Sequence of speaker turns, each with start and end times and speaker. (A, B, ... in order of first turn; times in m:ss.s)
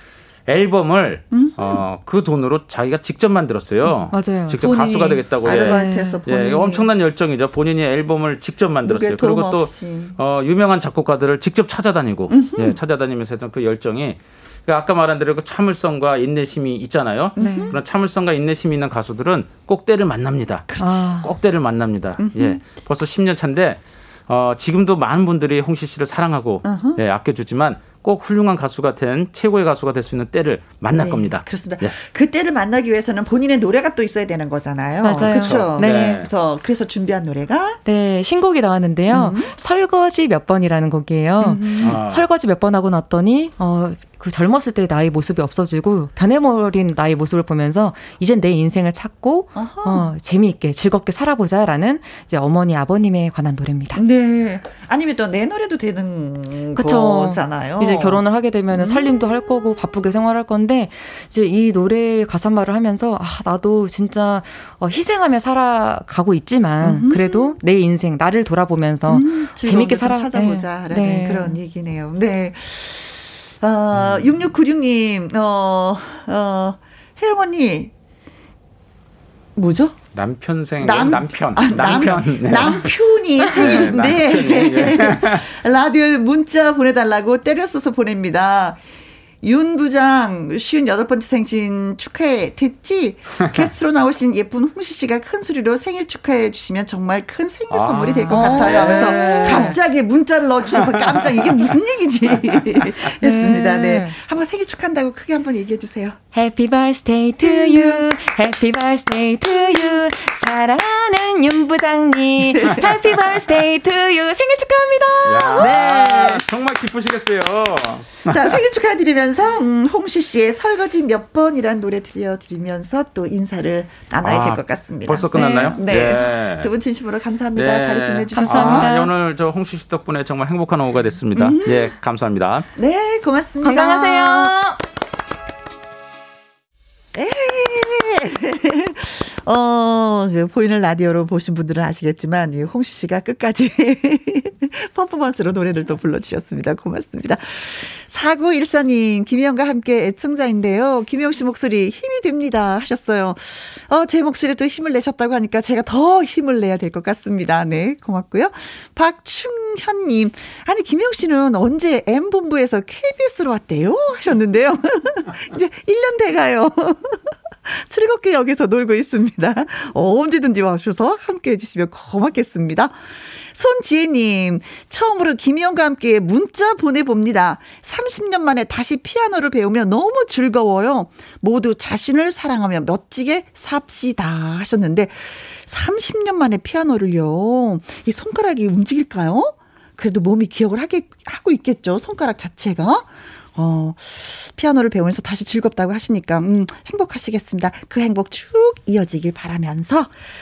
0:00.5-0:20.7 A
0:01.3-0:01.8 B
0:04.1-0:04.6 C
0:04.6-0:06.9 B
0:05.5-0:06.2 C
0:08.8-0:10.2 B
0:12.3-0:12.8 B
0:17.4-0:17.7 C
0:17.4-0:17.8 B
0:20.7-0:21.2 B
0:20.8-0:21.3 C
0:21.2-0:31.9 A
0:22.2-0:22.6 B
0:26.6-0:27.0 B
0:31.0-0:37.8 B
0:35.0-0:36.2 C
0:35.3-0:36.3 A
0:37.8-0:54.0 C
0:39.1-0:39.5 B
0:41.4-0:42.0 B
0:41.8-0:42.2 A
0:49.5-0:50.1 B
0:53.9-0:59.1 B
0:56.7-1:11.6 C
1:06.8-1:07.6 B
1:09.1-1:17.9 B
1:13.9-1:14.3 A
1:19.6-1:20.0 B
1:20.1-1:22.9 A
1:20.8-1:28.8 B
1:23.4-1:25.4 A
1:23.5-1:24.0 C
1:29.4-1:46.2 B
1:37.7-1:39.8 A
1:38.3-1:39.8 C
1:40.8-1:41.7 A
1:43.2-1:44.2 C
1:46.3-1:55.8 C
1:47.4-1:48.0 B
1:52.5-1:52.9 B
1:55.2-1:58.6 A
1:55.5-1:56.4 B
1:58.3-2:08.9 B
2:04.2-2:06.7 A
2:05.3-2:05.8 C
2:07.5-2:12.7 A
2:08.3-2:09.1 C
2:11.3-2:11.9 B
2:12.8-2:14.5 B
2:13.6-2:14.8 C
2:17.1-2:52.9 B
2:53.5-3:20.1 B